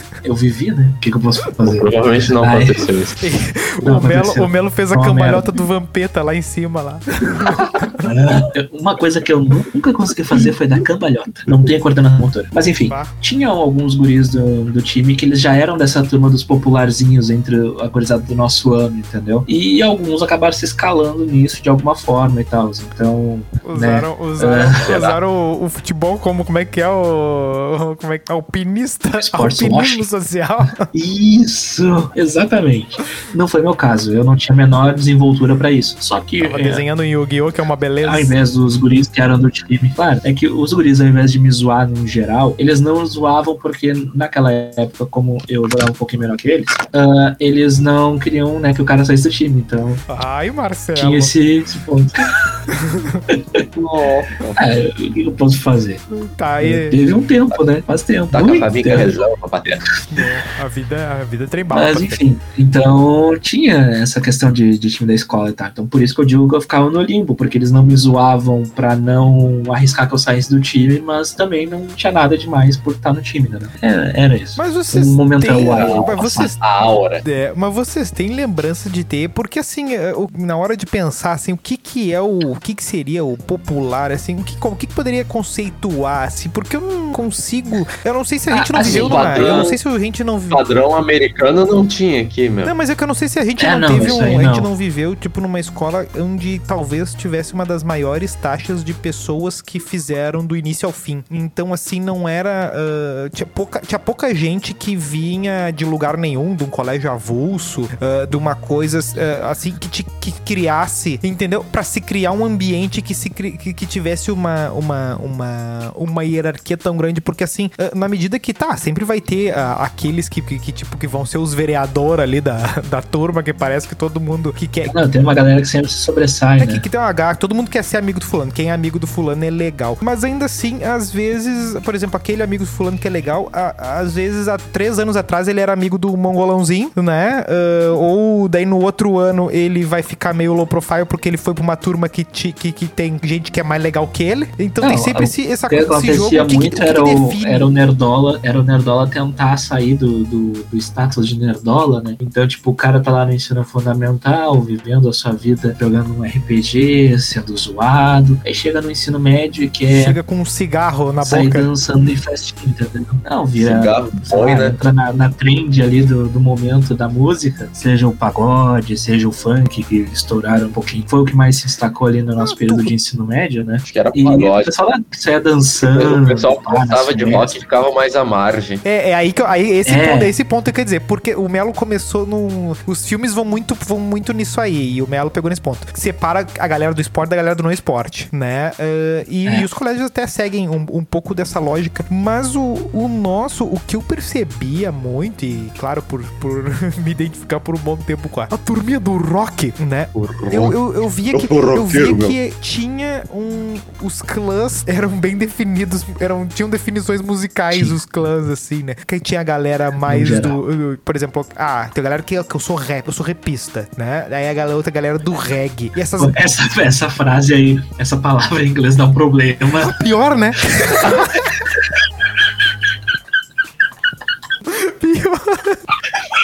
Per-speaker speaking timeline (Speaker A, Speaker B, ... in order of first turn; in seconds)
Speaker A: 0.2-2.9, 3.8-5.6, 8.0-24.9, 29.2-30.1, 30.9-36.8, 38.0-50.0, 51.0-52.2, 53.3-53.6, 54.6-56.0, 56.6-59.1, 61.7-76.5, 88.5-89.7, 93.6-94.7, 124.9-126.8, 144.8-160.2, 161.2-177.6, 179.8-180.3, 207.7-208.0, 210.0-210.6, 216.2-220.0
Speaker B: 1.6-3.2, 24.8-25.2, 53.8-54.6, 58.3-59.8, 75.7-77.2, 88.8-89.8, 90.5-92.7, 163.6-164.8, 173.8-174.7, 175.8-178.8, 200.1-200.8, 201.3-202.4
Speaker C: 3.2-8.1, 12.9-13.2, 23.6-30.9, 36.4-38.4, 50.1-51.3, 52.7-53.2, 56.1-57.0, 60.1-62.2, 74.6-90.6, 92.6-124.9, 126.6-147.7, 159.9-161.7, 172.4-172.9, 178.8-216.4, 219.8-221.5, 224.7-225.8